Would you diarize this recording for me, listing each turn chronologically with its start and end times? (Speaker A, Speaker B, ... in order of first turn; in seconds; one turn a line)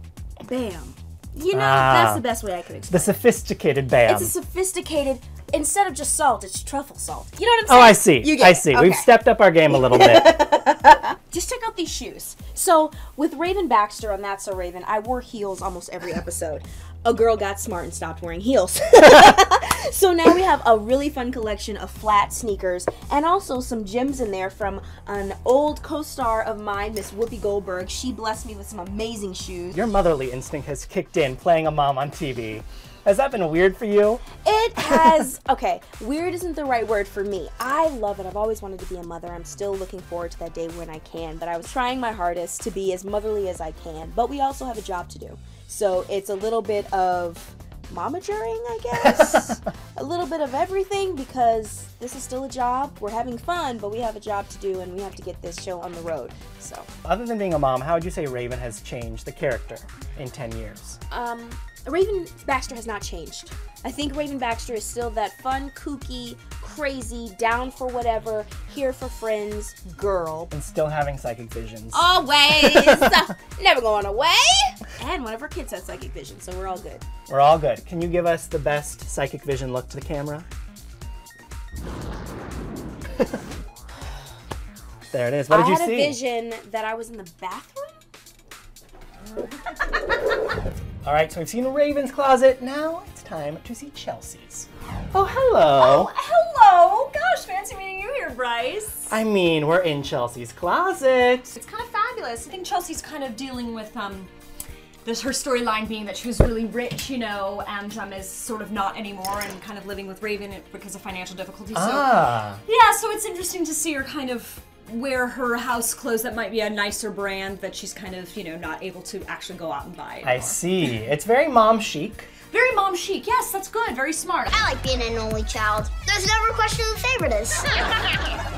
Speaker A: 0.4-3.2
Speaker B: 1.5-2.2
Speaker B: 2.9-4.3
Speaker A: 4.1-9.1
Speaker B: 7.7-10.4
Speaker A: 9.7-29.9
Speaker B: 29.7-34.2
Speaker A: 34.4-56.9
Speaker B: 57.0-61.0
Speaker A: 61.1-70.5
Speaker B: 70.5-72.1
Speaker A: 71.9-77.0
Speaker B: 77.3-80.5
Speaker B: 85.1-86.2
Speaker A: 85.5-88.0
Speaker B: 91.0-96.1
Speaker C: 95.8-99.2
Speaker B: 99.1-101.5
Speaker C: 101.5-104.3
Speaker C: 105.0-120.6
Speaker B: 111.7-112.6
Speaker B: 120.2-122.3
Speaker C: 122.5-124.5
Speaker D: 124.5-127.8